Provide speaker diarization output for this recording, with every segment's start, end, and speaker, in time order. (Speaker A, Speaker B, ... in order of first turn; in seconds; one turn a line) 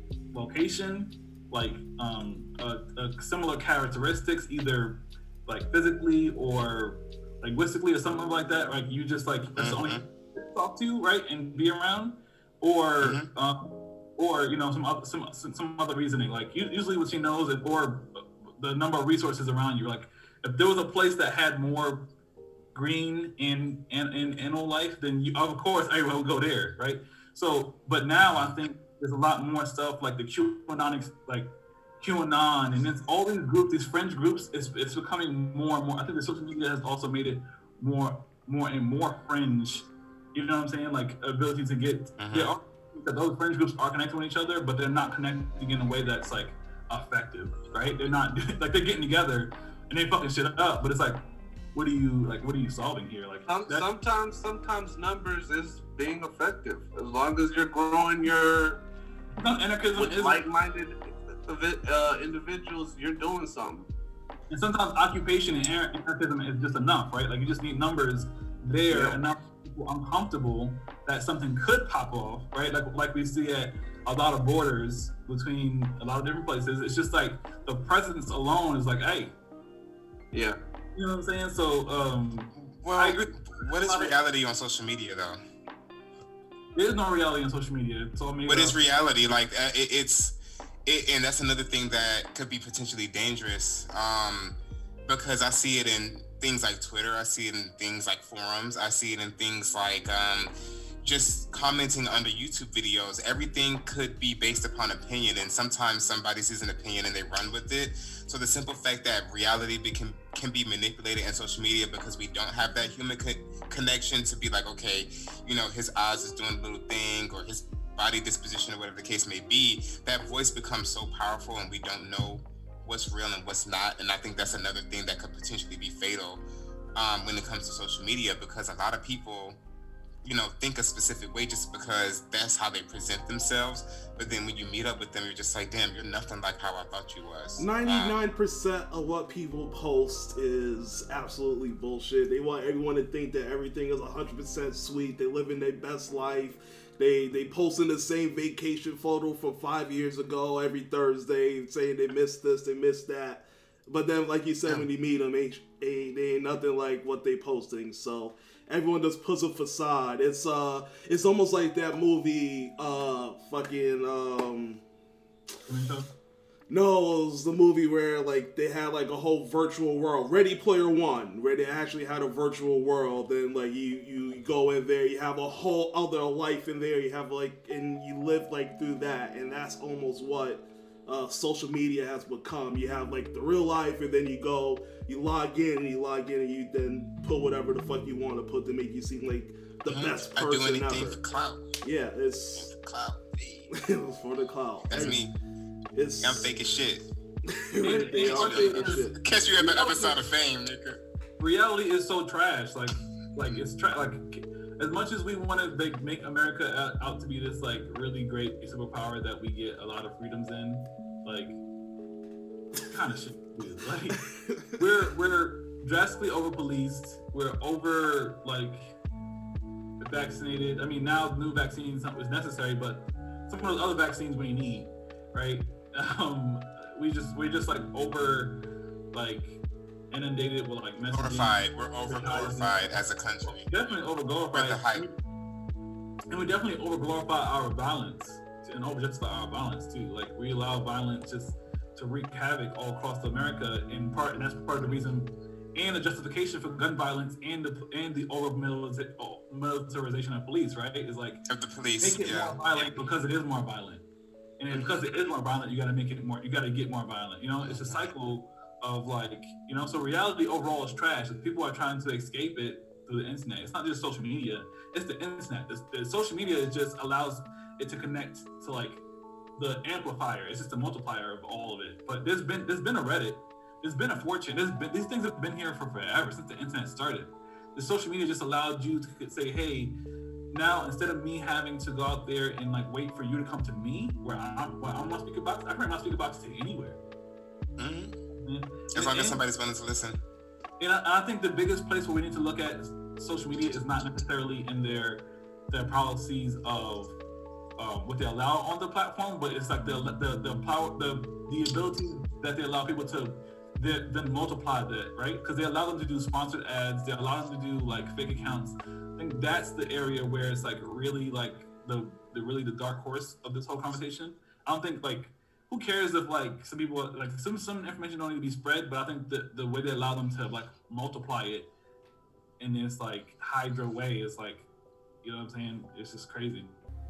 Speaker A: 0.3-22.1
Speaker B: 9.6-10.1
Speaker B: 13.0-13.3
Speaker A: 22.7-51.2
Speaker B: 42.2-42.5
Speaker A: 51.7-53.9
Speaker C: 53.5-58.8
Speaker A: 59.4-60.4
Speaker C: 60.0-60.9
Speaker C: 61.5-63.9
Speaker A: 64.5-79.3
Speaker C: 68.9-69.2
Speaker C: 80.3-80.6
Speaker A: 81.0-84.2
Speaker B: 82.6-85.4
Speaker A: 86.8-88.8
Speaker B: 88.5-90.3
Speaker B: 90.9-100.5
Speaker B: 101.0-126.4
Speaker B: 127.0-129.6
Speaker B: 130.2-138.2
Speaker D: 137.6-164.8
Speaker A: 165.7-166.1
Speaker D: 166.7-191.2
Speaker B: 189.9-191.6
Speaker D: 191.8-192.7
Speaker B: 192.6-193.7
Speaker D: 193.8-195.2
Speaker B: 194.9-195.3
Speaker D: 195.9-196.5
Speaker B: 196.2-197.1
Speaker D: 197.5-199.2
Speaker A: 197.8-200.2
Speaker B: 198.1-201.0
Speaker A: 201.4-211.6
Speaker A: 212.9-218.9
Speaker A: 220.0-228.6
Speaker A: 229.1-229.6
Speaker A: 230.1-232.8
Speaker B: 231.1-233.6
Speaker A: 233.4-235.2
Speaker B: 234.5-235.1
Speaker A: 236.3-251.4
Speaker B: 251.5-253.1
Speaker A: 252.0-254.0
Speaker A: 254.6-269.0
Speaker B: 254.7-255.1
Speaker B: 257.6-258.1
Speaker A: 269.6-279.9
Speaker A: 280.5-287.0
Speaker B: 287.8-288.2
Speaker A: 288.3-289.4
Speaker B: 288.9-290.2
Speaker A: 290.8-297.1
Speaker A: 297.8-321.7
Speaker A: 322.6-324.7
Speaker A: 325.2-326.7